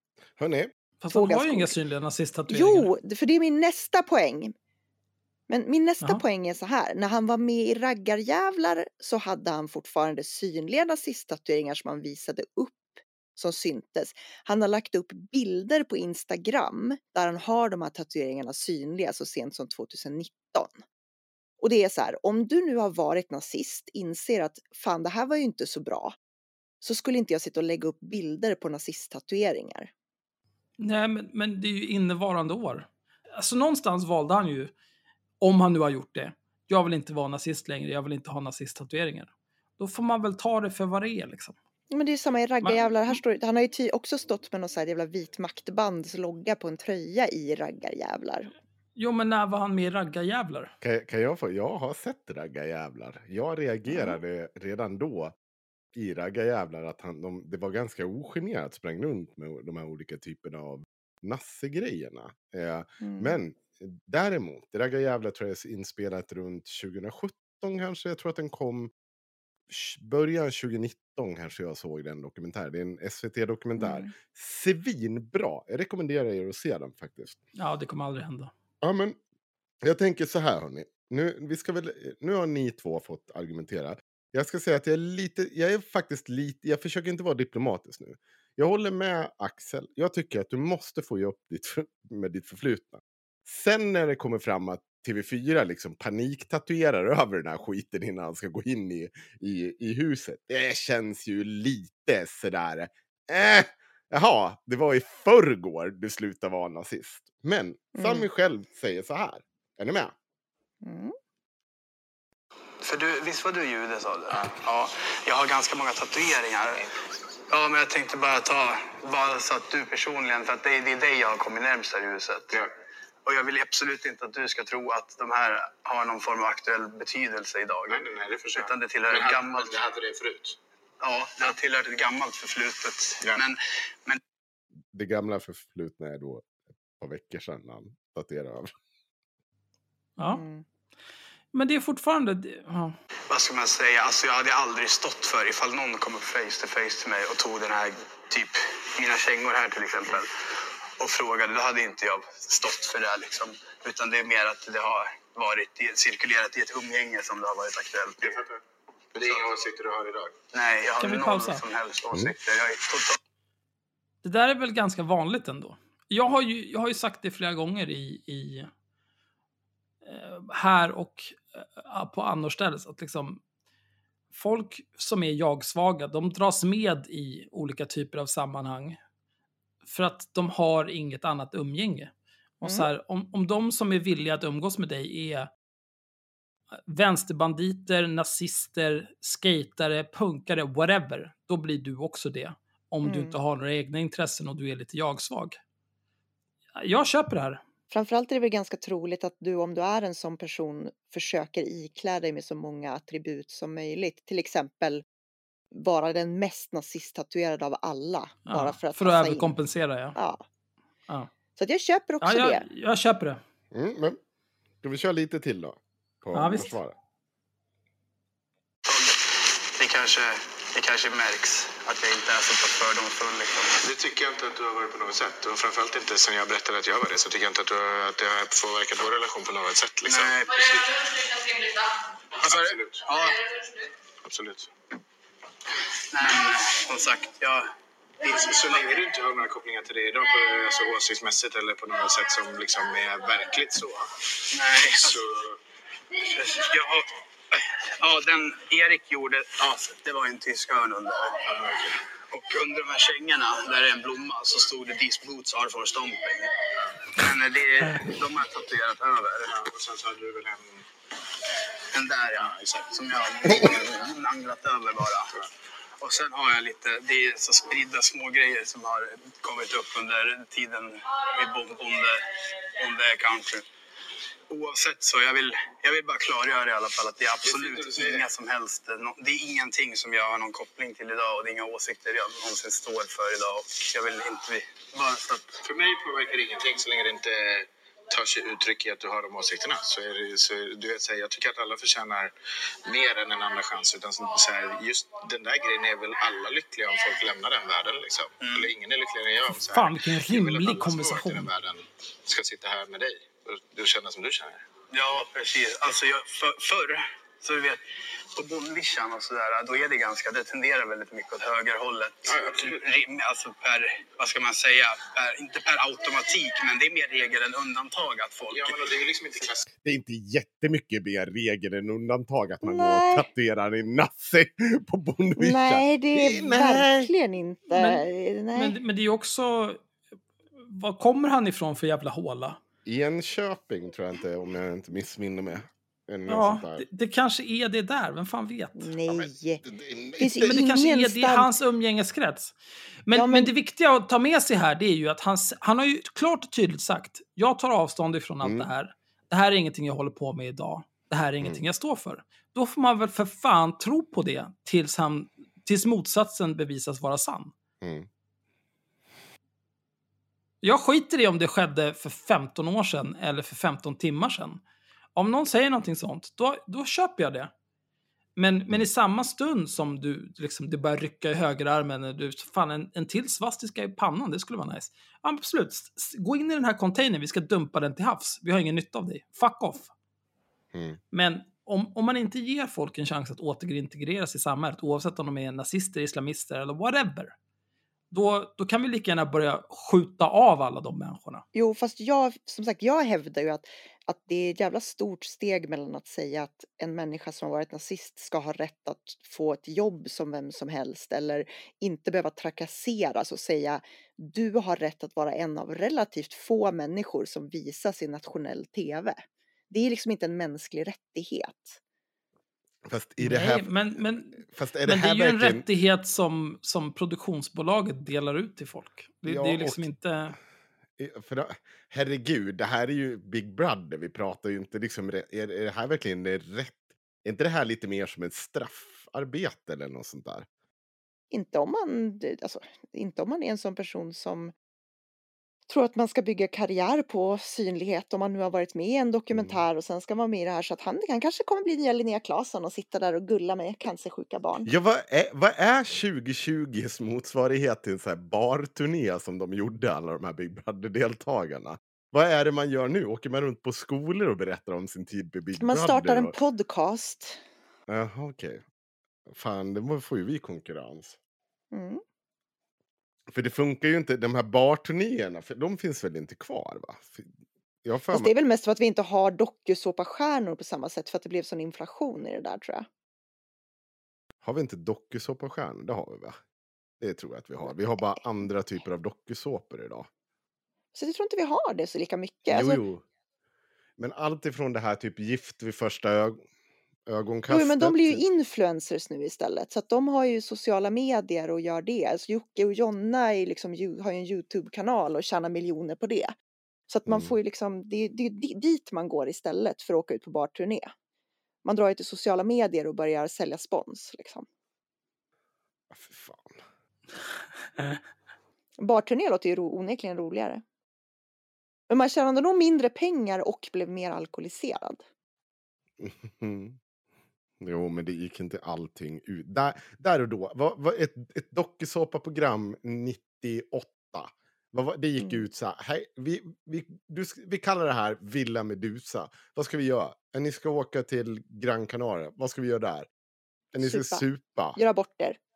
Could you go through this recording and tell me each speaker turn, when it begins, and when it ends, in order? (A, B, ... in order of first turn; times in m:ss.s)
0:00.4-0:00.7 A
0:01.0-0:02.9 B
0:01.1-0:01.8 C
0:02.5-0:04.5 C
0:05.5-0:20.8 C
0:21.6-0:26.1 C
0:26.8-0:29.9 C
0:30.8-0:34.7 B
0:35.4-0:41.6 B
0:41.9-0:48.5 C
0:42.6-0:43.2 B
0:49.0-0:50.7 B
0:50.8-0:55.3 A
0:53.9-0:54.2 C
0:55.9-1:08.9 A
1:03.0-1:03.4 C
1:09.7-1:17.4 A
1:13.8-1:14.1 C
1:17.6-1:18.5 B
1:18.8-1:19.2 A
1:19.8-1:50.1 A
1:47.9-1:48.3 C
1:50.8-1:51.1 C
1:52.8-1:56.8 D
1:56.8-1:57.0 E
1:57.5-2:02.6 D
2:03.2-2:09.8 D
2:07.9-2:10.6 E
2:11.0-2:14.2 D
2:14.9-2:16.5 A
2:17.0-2:18.7 A
2:20.2-2:20.4 B
2:20.3-2:20.6 C
2:21.5-2:23.0 B
2:23.3-2:30.3 D
2:31.0-2:38.4 D
2:38.3-2:38.5 E
2:39.1-2:40.3 E
2:40.5-2:43.2 D
2:41.0-2:41.6 B
2:44.2-2:48.7 B
2:50.0-2:53.4 B
2:54.3-2:59.0 B
2:59.8-3:05.5 B
3:06.9-3:15.6 B
3:13.0-3:13.4 C
3:16.8-3:17.6 B
3:17.9-3:25.0 C
3:25.7-3:29.5 C
3:28.5-3:30.2 B
3:30.1-3:30.4 C
3:31.6-3:32.6 C
3:32.2-3:33.4 B
3:33.7-3:34.2 A
3:34.8-3:36.9 A
3:36.3-3:36.8 B
3:38.8-3:43.8 D
3:43.8-3:50.4 E
3:50.0-3:50.9 D
3:52.4-3:53.5 D
3:52.4-3:53.0 E
3:54.2-3:54.7 E
3:56.1-3:57.7 D
3:58.2-4:04.1 E
4:04.5-4:05.2 D
4:04.9-4:05.6 E
4:06.2-4:11.4 D
4:11.5-4:11.9 E
4:12.2-4:16.5 D
4:17.1-4:19.6 D
4:19.5-4:20.8 E
4:21.9-4:25.4 D
4:22.4-4:22.9 E
4:26.0-4:33.7 D
4:34.5-4:45.6 D
4:37.4-4:38.2 E
4:45.6-4:52.3 E
4:52.8-5:04.6 E
4:58.4-4:58.7 D
4:59.5-5:01.5 B
5:04.9-5:07.8 D
5:08.3-5:19.0 D
5:12.3-5:12.8 E
5:18.5-5:19.7 E
5:19.8-5:27.1 A
5:22.6-5:23.2 C
5:25.4-5:28.8 C
5:27.7-5:29.8 B
5:30.6-5:32.6 B
5:32.8-5:36.8 A
5:36.3-5:38.9 B
5:38.8-5:39.6 C
5:39.1-5:40.5 A
5:40.2-5:41.5 C
5:40.4-5:57.5 B
5:43.1-5:43.5 C
5:48.4-5:48.7 A
5:57.8-5:58.1 A
6:00.6-6:04.6 B
6:05.1-6:07.5 B
6:08.4-6:19.9 B
6:20.7-6:21.0 A
6:21.1-6:27.3 B
6:28.1-6:31.4 B
6:31.5-6:51.8 C
6:52.8-6:55.6 A
6:53.2-7:00.4 B
6:59.2-6:59.8 A
7:01.0-7:10.4 A
7:11.3-7:14.5 C
7:15.7-7:24.7 C
7:19.3-7:19.6 A
7:24.6-7:36.3 A
7:35.6-7:37.4 C
7:37.9-7:38.6 A
7:39.3-7:41.2 A
7:41.7-7:42.0 C
7:43.3-7:47.3 A
7:47.8-7:48.3 A
7:48.1-7:52.9 C
7:54.4-7:56.4 A
7:57.0-8:00.1 A
8:00.9-8:02.8 C
8:02.5-8:03.0 A
8:04.0-8:06.4 A
8:07.1-8:08.2 A
8:07.5-8:16.3 C
8:16.9-8:20.9 C
8:17.0-8:17.3 A
8:21.6-8:24.4 C
8:25.9-8:26.6 A
8:27.7-8:28.0 B
8:28.8-8:30.6 C
8:31.9-8:35.0 C
8:36.0-8:36.8 A
8:37.6-8:53.1 A
8:45.2-8:45.4 C
8:53.7-8:54.8 A
8:53.8-8:55.4 C